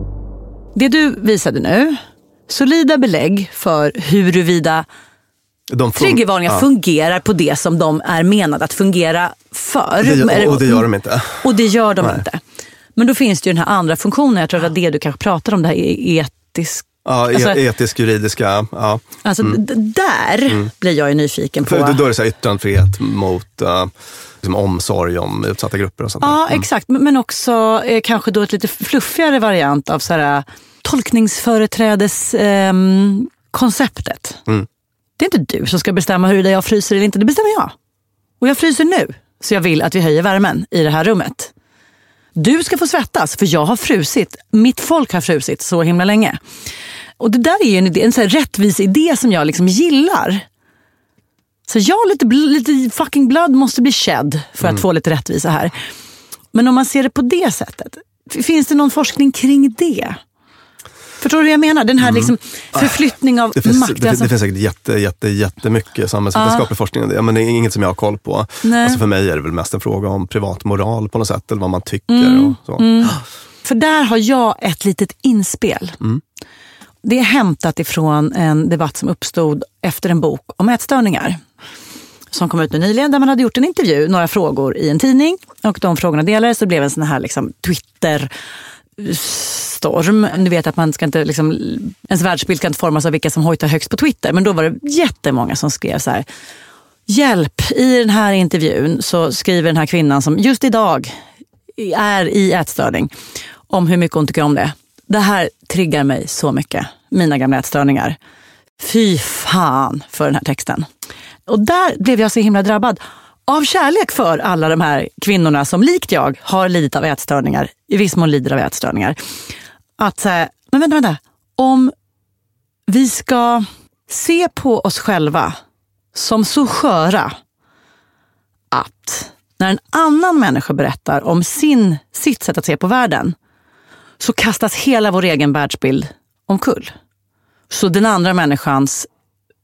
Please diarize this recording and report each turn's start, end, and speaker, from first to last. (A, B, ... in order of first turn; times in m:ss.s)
0:00.8-0:04.9 A
0:05.7-0:06.7 B
0:06.0-0:10.9 A
0:10.0-0:12.2 B
0:11.4-0:12.4 A
0:13.0-0:17.6 A
0:17.0-0:19.6 B
0:19.2-0:22.0 A
0:21.6-0:26.6 B
0:26.2-0:34.4 A
0:35.2-0:37.7 A
0:38.4-0:41.5 A
0:42.4-0:46.4 A
0:47.2-0:50.4 A
0:51.7-0:55.8 A
0:56.5-1:00.2 A
1:01.2-1:04.3 A
1:02.0-1:03.0 B
1:03.6-1:13.2 B
1:06.4-1:06.7 A
1:08.6-1:09.0 A
1:12.1-1:16.0 A
1:17.0-1:21.4 A
1:22.3-1:28.3 A
1:29.0-1:36.3 A
1:37.1-1:41.2 A
1:41.8-1:43.1 A
1:43.7-1:48.2 A
1:48.8-1:50.9 A
1:51.5-1:59.2 A
2:00.0-2:01.9 A
2:02.9-2:05.6 A
2:06.1-2:07.3 A
2:08.7-2:13.4 A
2:14.2-2:16.9 A
2:17.7-2:19.1 A